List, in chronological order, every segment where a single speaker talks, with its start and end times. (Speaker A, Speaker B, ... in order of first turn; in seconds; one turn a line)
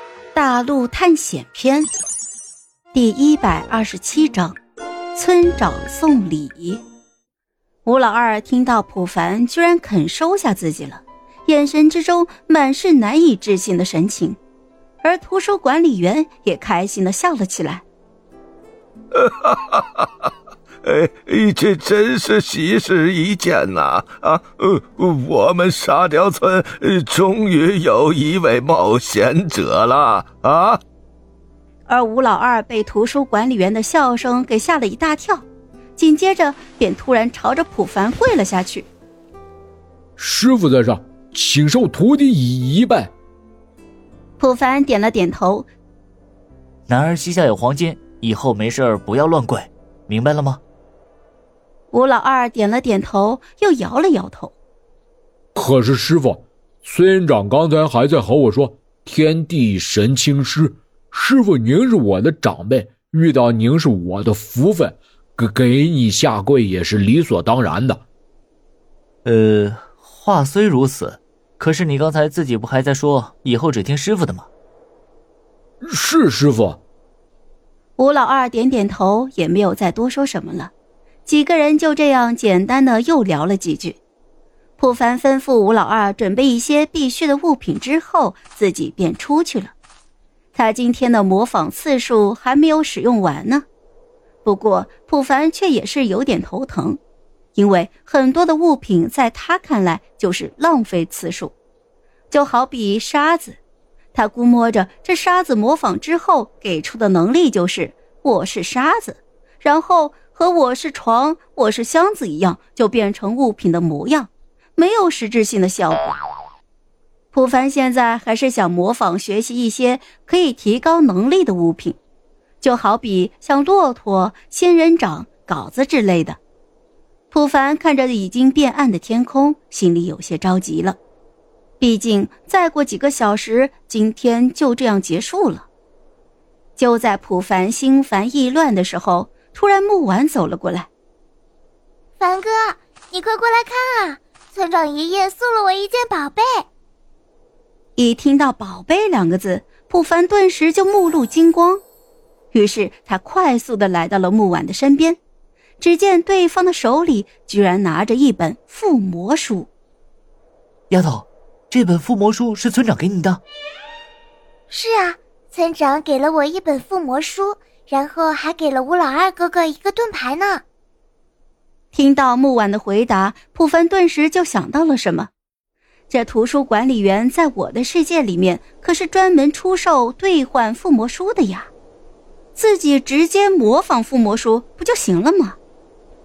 Speaker A: 0.3-1.9
Speaker A: 2.9-4.5
Speaker A: 5.1-6.8
Speaker A: 7.8-14.4
Speaker A: 15.0-17.8
Speaker B: 19.2-20.1
Speaker B: 20.8-30.8
Speaker A: 31.9-35.4
Speaker A: 36.0-38.9
Speaker C: 40.2-43.1
Speaker A: 44.4-45.7
Speaker D: 46.9-50.6
Speaker A: 51.9-54.5
Speaker C: 55.5-68.0
Speaker D: 69.2-74.5
Speaker C: 75.8-76.8
Speaker A: 78.0-80.7
Speaker A: 81.2-84.0
Speaker A: 84.8-89.7
Speaker A: 90.5-93.6
Speaker A: 94.4-97.0
Speaker A: 97.5-101.5
Speaker A: 102.3-103.6
Speaker A: 104.1-116.2
Speaker A: 117.3-122.0
Speaker A: 122.6-126.4
Speaker A: 127.3-131.0
Speaker A: 131.8-135.7
Speaker A: 136.8-140.9
Speaker E: 142.2-146.7
Speaker A: 147.9-151.8
Speaker A: 152.5-155.2
Speaker A: 155.8-159.7
Speaker D: 160.9-163.4
Speaker E: 164.7-170.6
Speaker A: 171.9-175.3
Speaker A: 176.1-181.7
Speaker A: 182.6-185.6